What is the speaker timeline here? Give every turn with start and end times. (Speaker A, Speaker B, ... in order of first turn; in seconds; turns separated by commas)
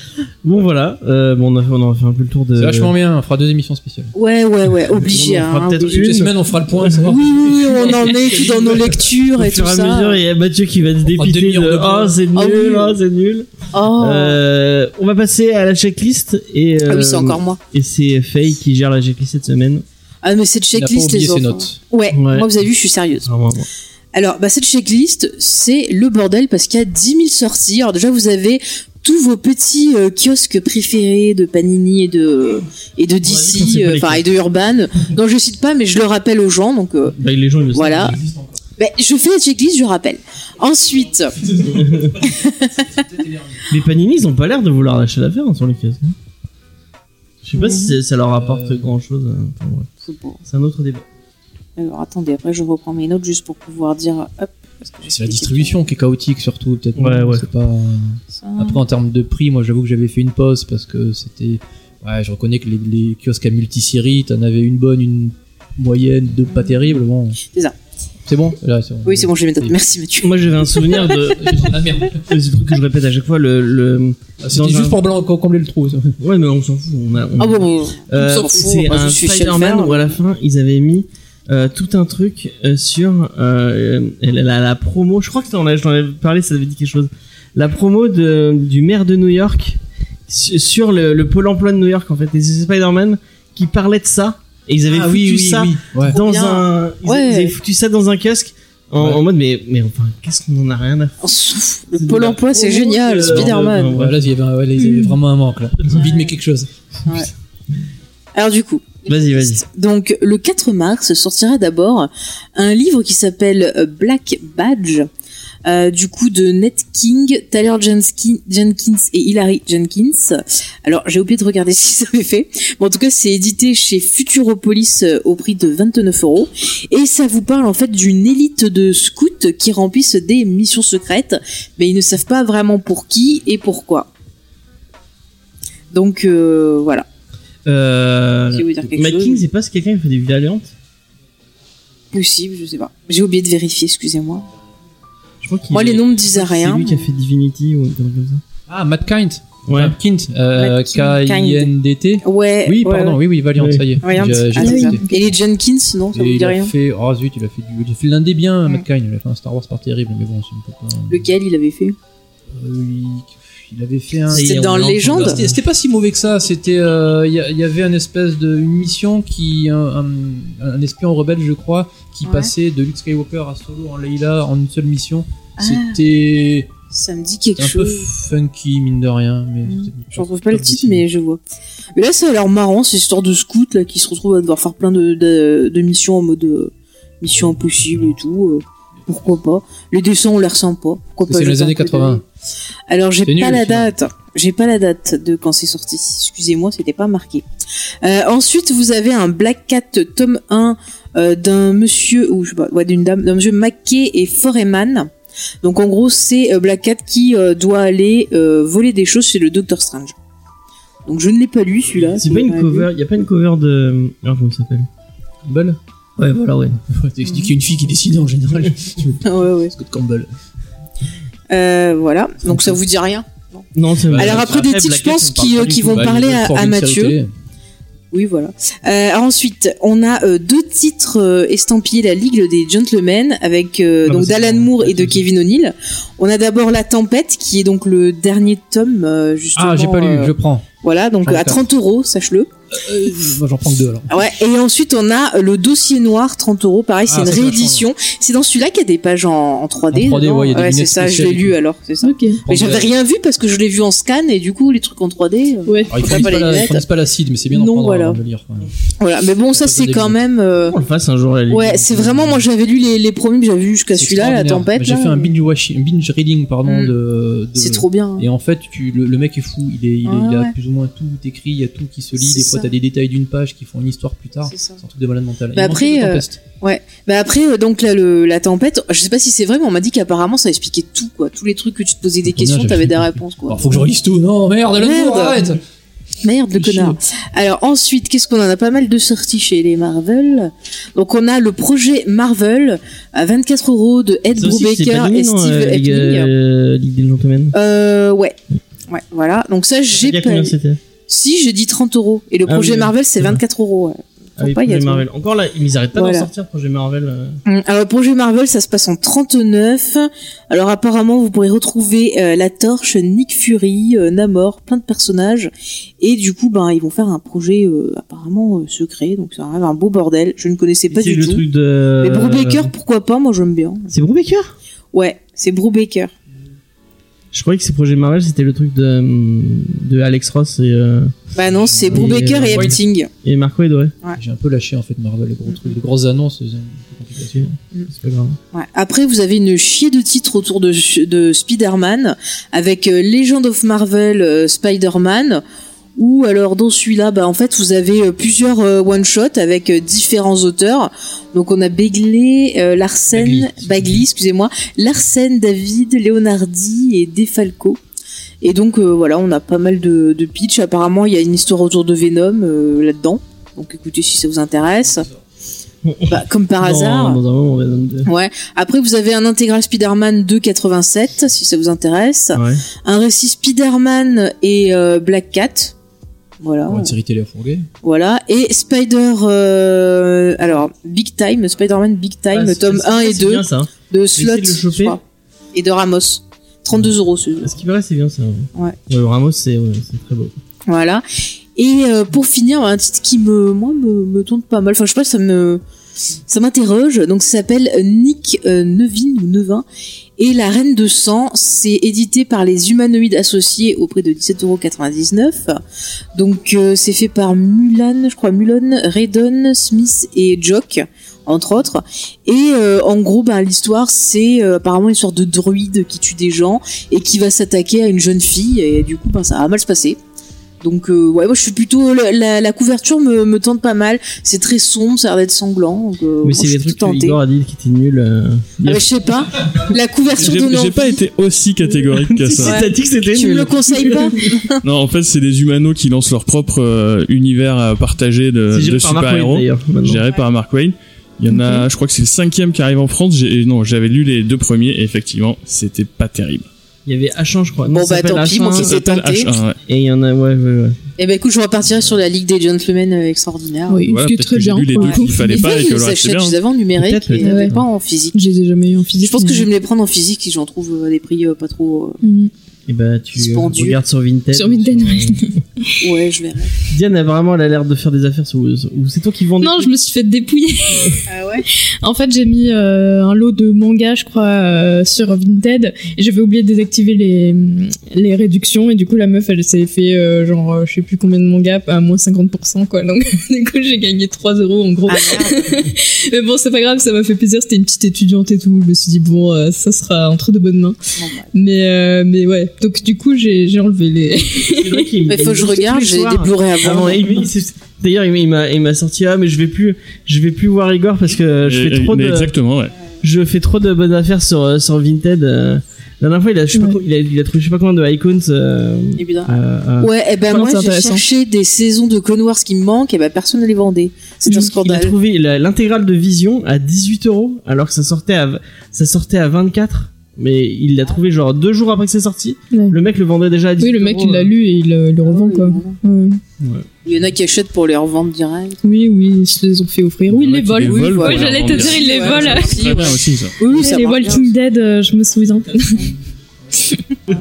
Speaker A: 0.4-2.9, Speaker B: 2.6-4.1, Speaker C: 4.1-6.1, Speaker A: 5.0-7.1, Speaker B: 5.4-9.0, Speaker C: 7.1-10.2, Speaker A: 9.4-19.8, Speaker B: 11.0-12.2, Speaker C: 12.3-13.0, Speaker C: 13.7-14.4, Speaker C: 16.9-17.6, Speaker C: 20.2-23.3, Speaker B: 20.7-21.8, Speaker A: 22.1-22.5, Speaker A: 23.2-23.7, Speaker C: 24.1-37.2, Speaker A: 33.2-34.2, Speaker A: 37.2-38.2, Speaker C: 37.7-38.2, Speaker B: 38.0-38.6, Speaker C: 38.8-41.4, Speaker B: 41.3-43.7, Speaker A: 41.8-42.2, Speaker C: 42.2-43.0, Speaker A: 43.7-46.1, Speaker A: 47.4-49.9, Speaker C: 47.6-48.0, Speaker B: 48.3-48.9, Speaker C: 50.0-50.4, Speaker A: 50.5-51.0, Speaker C: 51.8-55.8, Speaker B: 55.0-67.4, Speaker A: 57.0-57.5, Speaker C: 58.4-58.8, Speaker C: 67.4-67.8, Speaker B: 68.3-69.8, Speaker C: 69.0-71.0, Speaker A: 70.2-75.0, Speaker B: 70.7-72.3, Speaker B: 74.4-76.2, Speaker A: 76.2-101.2, Speaker C: 77.4-80.2, Speaker B: 94.9-96.2, Speaker C: 96.0-97.5, Speaker B: 99.0-99.2, Speaker C: 101.2-103.9, Speaker A: 102.0-104.2, Speaker B: 103.3-106.7, Speaker D: 104.8-105.2, Speaker C: 105.9-106.3, Speaker C: 108.3-115.1, Speaker A: 109.1-109.6, Speaker C: 115.7-134.1, Speaker C: 135.9-137.1, Speaker A: 137.7-140.7, Speaker C: 138.5-139.4, Speaker C: 142.1-144.5, Speaker A: 145.4-148.4, Speaker C: 145.7-147.1, Speaker B: 148.7-155.2, Speaker A: 149.7-150.0, Speaker C: 150.6-151.7, Speaker C: 152.2-153.2, Speaker A: 153.6-154.0, Speaker C: 154.0-156.7, Speaker D: 154.6-155.1, Speaker B: 156.1-161.3, Speaker C: 161.1-162.0, Speaker B: 162.5-176.7, Speaker A: 164.3-165.6, Speaker C: 164.3-165.4, Speaker C: 172.2-172.5, Speaker C: 175.6-176.0, Speaker C: 176.9-178.1, Speaker B: 177.6-181.1, Speaker C: 179.7-181.4, Speaker C: 182.0-192.2, Speaker B: 191.2-192.2, Speaker C: 192.9-197.4, Speaker B: 193.2-193.9, Speaker C: 198.0-205.1, Speaker C: 205.6-210.2, Speaker C: 211.1-212.9, Speaker A: 212.0-214.9, Speaker B: 215.5-215.8, Speaker A: 216.2-216.8, Speaker B: 216.7-220.3, Speaker C: 217.2-217.5, Speaker C: 219.2-219.7, Speaker C: 221.5-227.2, Speaker B: 222.4-222.7, Speaker A: 223.8-226.1, Speaker B: 224.1-224.6, Speaker B: 225.9-227.3, Speaker C: 228.1-242.5, Speaker A: 234.1-235.2, Speaker B: 239.6-240.7, Speaker B: 241.2-241.6, Speaker B: 242.7-244.3, Speaker C: 244.1-256.9, Speaker B: 247.1-247.9, Speaker B: 249.9-251.6, Speaker D: 252.0-252.4, Speaker B: 252.5-252.9, Speaker D: 255.7-256.1, Speaker B: 255.9-258.7, Speaker C: 257.5-258.2, Speaker C: 259.0-260.8, Speaker B: 259.5-260.2, Speaker A: 260.7-262.4, Speaker C: 261.5-265.3, Speaker B: 263.9-276.4, Speaker C: 266.6-266.9, Speaker C: 267.6-268.3, Speaker C: 270.1-270.5, Speaker C: 272.2-272.7, Speaker C: 274.5-274.8, Speaker C: 275.6-283.9, Speaker B: 282.2-285.6, Speaker C: 284.8-285.5, Speaker C: 286.2-296.3, Speaker B: 286.5-287.0, Speaker A: 294.4-297.6, Speaker C: 297.5-298.4, Speaker C: 298.9-300.5, Speaker A: 299.9-300.8, Speaker C: 301.1-305.1, Speaker A: 302.5-303.4, Speaker A: 304.4-307.4, Speaker C: 305.9-306.3, Speaker C: 307.5-321.4, Speaker A: 320.9-322.7, Speaker C: 322.0-323.9, Speaker A: 323.9-324.6, Speaker C: 324.9-326.1, Speaker A: 327.3-331.2, Speaker C: 331.4-333.1, Speaker B: 331.7-332.8, Speaker A: 331.9-333.9, Speaker B: 334.2-337.6, Speaker C: 335.5-335.8, Speaker A: 337.3-338.4, Speaker C: 338.5-345.4, Speaker C: 346.0-357.8, Speaker A: 353.1-354.0, Speaker C: 358.4-365.1, Speaker A: 365.8-368.1, Speaker C: 366.1-367.2, Speaker C: 368.1-375.7, Speaker A: 372.4-372.6, Speaker C: 376.4-376.9, Speaker B: 376.7-377.7, Speaker C: 377.8-385.0, Speaker A: 382.3-385.0, Speaker C: 385.5-387.6, Speaker A: 387.4-390.3, Speaker C: 390.7-391.0, Speaker C: 391.6-395.6, Speaker C: 396.3-399.6, Speaker C: 400.2-405.6, Speaker C: 406.1-420.0, Speaker C: 420.6-427.2, Speaker A: 426.2-428.9, Speaker C: 428.6-431.0, Speaker E: 430.2-432.6, Speaker A: 431.9-434.3, Speaker C: 432.4-434.6, Speaker E: 434.6-446.5, Speaker A: 438.5-440.0, Speaker D: 441.3-441.7, Speaker A: 446.9-448.8, Speaker C: 447.7-449.3, Speaker E: 448.5-449.6, Speaker A: 449.7-450.8, Speaker C: 451.0-453.8, Speaker D: 453.7-455.5, Speaker E: 453.9-456.4, Speaker C: 454.8-458.2, Speaker A: 456.8-457.6, Speaker D: 457.2-457.6, Speaker D: 458.1-459.5, Speaker C: 459.0-462.0, Speaker D: 462.0-462.3, Speaker A: 462.7-465.4, Speaker C: 463.1-463.8, Speaker D: 464.3-465.8, Speaker C: 465.8-466.6, Speaker A: 466.7-469.7, Speaker D: 469.4-490.8, Speaker C: 471.1-471.5, Speaker C: 484.9-485.7, Speaker C: 491.0-491.3, Speaker D: 491.3-494.9, Speaker A: 494.4-502.3, Speaker C: 495.1-497.1, Speaker E: 501.4-502.8, Speaker A: 503.0-509.9, Speaker D: 506.5-506.8, Speaker C: 509.0-515.0, Speaker D: 510.3-511.0, Speaker A: 514.3-524.3, Speaker D: 522.5-522.8, Speaker D: 523.6-526.2, Speaker C: 525.0-525.8, Speaker A: 526.4-526.7, Speaker C: 526.8-528.6, Speaker D: 528.6-532.9, Speaker E: 530.1-533.4, Speaker C: 530.6-534.3, Speaker D: 533.4-535.9